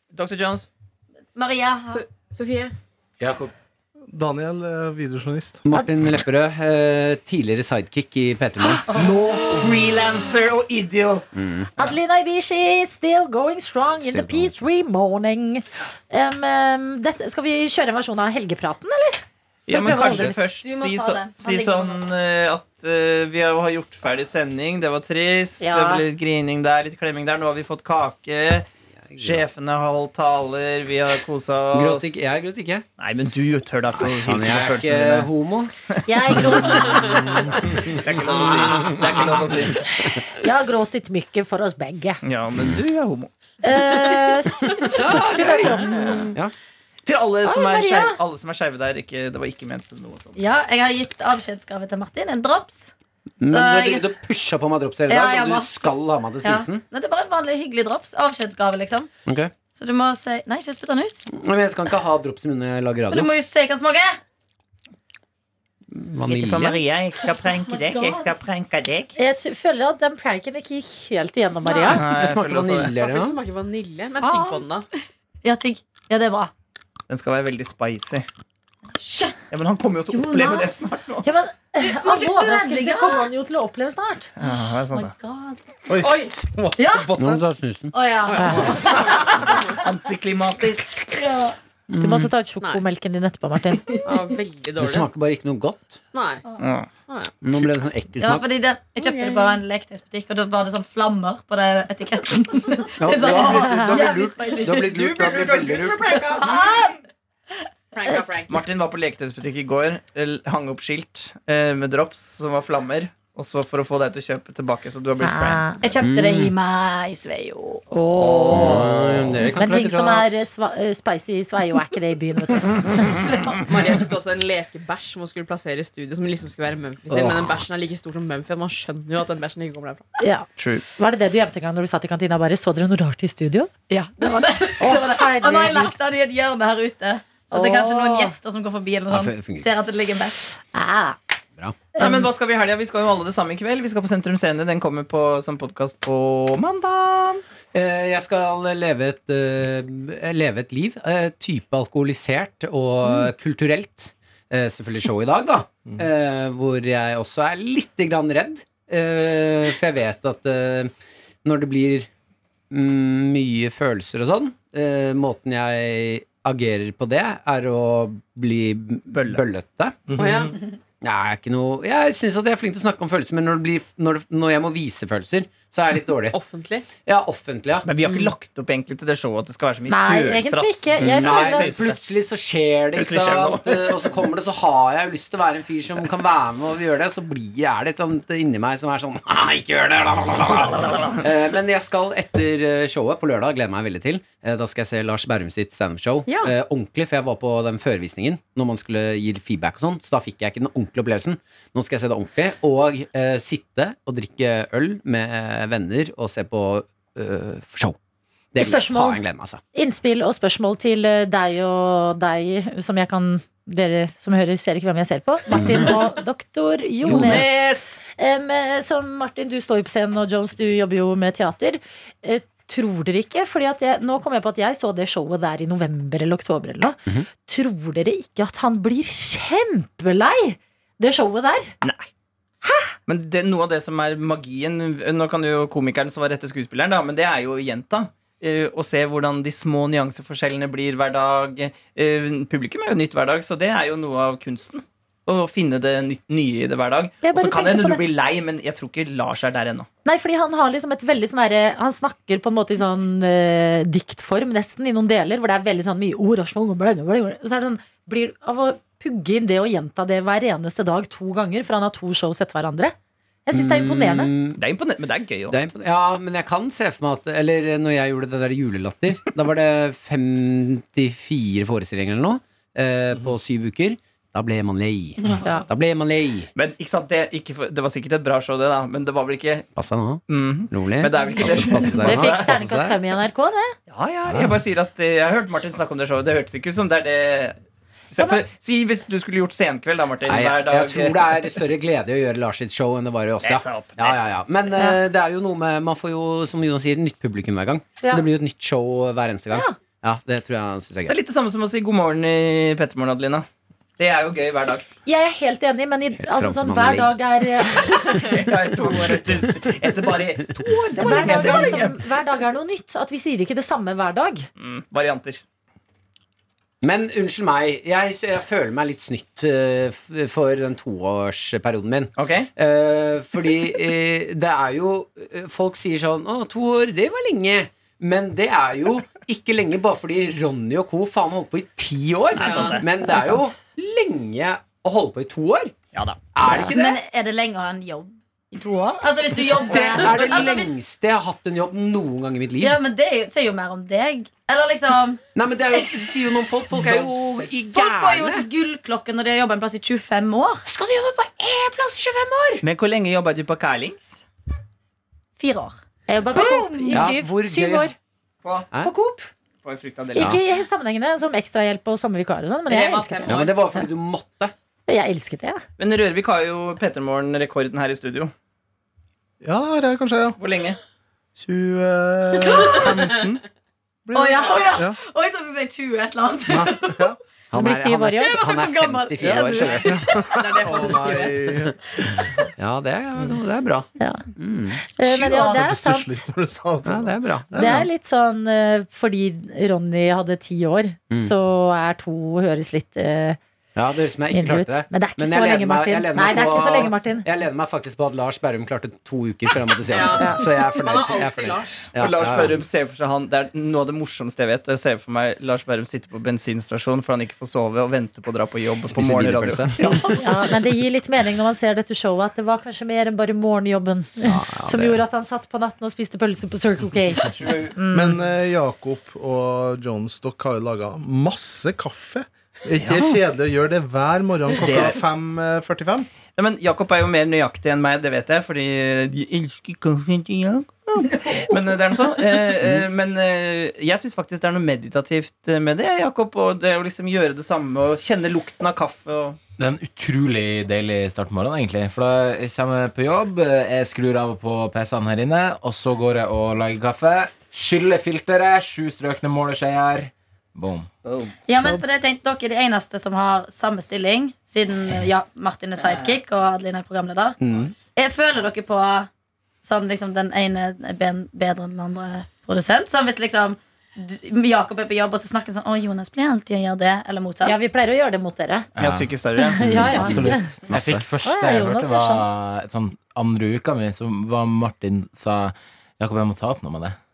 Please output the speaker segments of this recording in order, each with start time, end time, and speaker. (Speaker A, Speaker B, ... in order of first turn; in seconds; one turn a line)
Speaker A: 0.1-0.7
Speaker B: 1.4-2.0
Speaker C: 1.9-2.7
Speaker D: 3.2-3.5
Speaker E: 4.1-5.6
Speaker F: 5.6-9.2
Speaker A: 8.6-12.0
Speaker F: 11.3-11.7
Speaker G: 11.8-20.4
Speaker F: 14.0-14.6
Speaker A: 19.7-28.7
Speaker F: 20.0-20.3
Speaker B: 20.5-22.0
Speaker G: 25.6-26.0
Speaker F: 29.0-29.4
Speaker A: 29.2-32.3
Speaker F: 31.7-32.9
Speaker A: 33.0-35.3
Speaker F: 33.9-35.7
Speaker G: 36.0-37.6
Speaker F: 36.3-37.7
Speaker A: 36.3-36.7
Speaker A: 37.7-39.9
Speaker F: 38.7-39.4
Speaker G: 40.3-42.2
Speaker A: 42.2-43.3
Speaker G: 43.6-46.3
Speaker F: 44.8-46.5
Speaker A: 45.9-46.3
Speaker A: 47.0-50.4
Speaker G: 47.4-48.2
Speaker B: 50.4-52.9
Speaker F: 53.4-56.8
Speaker B: 53.5-54.2
Speaker B: 55.1-55.9
Speaker B: 56.4-59.1
Speaker F: 59.2-59.5
Speaker B: 59.7-61.2
Speaker F: 61.3-63.3
Speaker B: 63.1-64.2
Speaker F: 65.9-66.8
Speaker A: 66.3-69.1
Speaker B: 67.6-68.3
Speaker G: 69.2-72.0
Speaker C: 71.7-72.0
Speaker A: 71.9-72.9
Speaker F: 72.0-73.4
Speaker C: 73.0-74.8
Speaker B: 74.2-74.7
Speaker B: 75.4-76.5
Speaker A: 77.1-78.2
Speaker B: 79.0-79.4
Speaker A: 79.5-81.2
Speaker B: 80.1-80.9
Speaker G: 81.2-84.3
Speaker B: 81.8-83.3
Speaker A: 84.4-85.1
Speaker B: 84.9-85.6
Speaker E: 85.9-87.4
Speaker C: 86.0-86.4
Speaker B: 86.8-87.1
Speaker F: 87.2-87.9
Speaker B: 87.9-89.4
Speaker G: 88.4-88.7
Speaker A: 89.1-91.0
Speaker B: 91.1-91.5
Speaker F: 91.9-92.3
Speaker G: 92.0-94.0
Speaker C: 94.0-95.1
Speaker F: 94.8-96.0
Speaker C: 96.1-96.4
Speaker A: 96.6-96.9
Speaker C: 97.1-97.3
Speaker F: 97.4-98.4
Speaker B: 98.2-104.7
Speaker C: 98.9-99.6
Speaker F: 103.0-106.2
Speaker G: 103.6-104.0
Speaker C: 103.8-106.9
Speaker B: 106.3-107.0
Speaker C: 107.9-108.6
Speaker A: 108.5-115.6
Speaker G: 115.2-115.8
Speaker B: 115.8-117.8
Speaker F: 116.0-116.5
Speaker G: 117.9-118.8
Speaker A: 118.2-119.2
Speaker F: 118.5-120.4
Speaker G: 119.5-123.3
Speaker C: 123.3-130.1
Speaker G: 130.2-133.7
Speaker A: 130.6-130.8
Speaker B: 133.9-140.6
Speaker G: 134.8-135.9
Speaker G: 137.5-138.3
Speaker F: 139.1-139.7
Speaker G: 140.7-141.2
Speaker G: 141.9-142.3
Speaker A: 142.0-147.4
Speaker F: 147.7-160.9
Speaker F: 161.4-162.1
Speaker F: 162.7-170.0
Speaker A: 169.1-169.4
Speaker E: 170.1-170.6
Speaker C: 170.2-170.5
Speaker F: 171.0-176.4
Speaker C: 176.3-176.8
Speaker F: 177.0-177.9
Speaker A: 177.8-182.0
Speaker G: 179.9-181.8
Speaker F: 181.0-208.0
Speaker A: 182.9-183.9
Speaker A: 190.5-191.2
Speaker C: 196.3-196.5
Speaker F: 208.5-209.6
Speaker G: 208.6-209.2
Speaker G: 209.7-231.7
Speaker F: 215.5-215.9
Speaker F: 217.0-217.5
Speaker A: 217.1-217.9
Speaker G: 232.6-232.9
Speaker A: 233.1-249.9
Speaker G: 247.2-248.0
Speaker G: 250.0-262.9
Speaker G: 263.4-264.3
Speaker F: 263.5-264.6
Speaker A: 264.5-265.6
Speaker F: 265.5-276.5
Speaker A: 276.5-279.7
Speaker F: 279.8-283.0
Speaker A: 280.3-282.5
Speaker G: 281.9-283.8
Speaker A: 283.9-287.6
Speaker F: 284.3-284.6
Speaker A: 288.1-291.4
Speaker F: 290.2-301.2
Speaker A: 293.4-294.2
Speaker A: 301.1-303.4
Speaker A: 304.0-304.9
Speaker G: 305.0-308.3
Speaker F: 306.2-307.2
Speaker A: 307.8-312.0
Speaker F: 308.8-309.6
Speaker G: 310.9-314.5
Speaker A: 314.6-315.4
Speaker F: 316.8-335.7
Speaker A: 322.2-322.5
Speaker A: 332.4-332.8
Speaker G: 332.8-333.5
Speaker A: 335.9-336.2
Speaker F: 336.3-337.0
Speaker G: 336.4-336.7
Speaker B: 336.7-338.1
Speaker G: 338.5-339.0
Speaker B: 339.0-340.7
Speaker F: 339.7-342.8
Speaker B: 342.6-345.2
Speaker F: 345.3-348.5
Speaker B: 347.7-350.6
Speaker F: 350.7-352.6
Speaker A: 352.6-354.2
Speaker B: 355.4-355.8
Speaker G: 356.1-357.9
Speaker F: 356.4-357.9
Speaker G: 358.8-359.3
Speaker A: 359.6-360.4
Speaker G: 360.1-363.9
Speaker C: 362.7-363.5
Speaker F: 363.2-364.5
Speaker G: 364.9-365.6
Speaker A: 365.8-368.3
Speaker E: 369.4-370.4
Speaker A: 370.4-370.8
Speaker E: 371.4-373.4
Speaker B: 372.5-372.9
Speaker E: 374.0-375.0
Speaker B: 374.1-377.1
Speaker E: 376.5-377.2
Speaker F: 377.5-380.1
Speaker G: 377.5-378.4
Speaker B: 378.2-380.3
Speaker C: 379.2-379.7
Speaker E: 379.7-381.7
Speaker C: 380.3-381.5
Speaker F: 382.6-384.8
Speaker G: 384.9-386.2
Speaker E: 385.0-387.9
Speaker F: 386.8-387.5
Speaker G: 387.6-393.4
Speaker F: 393.8-402.6
Speaker G: 394.3-397.2
Speaker C: 399.9-401.9
Speaker A: 402.0-410.3
Speaker F: 408.9-410.2
Speaker G: 410.1-418.1
Speaker F: 414.2-415.0
Speaker A: 417.2-417.8
Speaker E: 417.9-426.1
Speaker A: 422.8-423.2
Speaker A: 424.6-425.0
Speaker A: 426.4-439.4
Speaker D: 439.6-450.9
Speaker A: 451.0-451.3
Speaker B: 451.4-457.3
Speaker A: 455.8-456.2
Speaker F: 457.4-457.7
Speaker B: 457.9-459.1
Speaker B: 459.6-467.6
Speaker G: 467.4-468.7
Speaker D: 468.7-477.0
Speaker A: 468.8-470.3
Speaker G: 469.6-470.5
Speaker F: 469.7-471.0
Speaker G: 471.2-472.2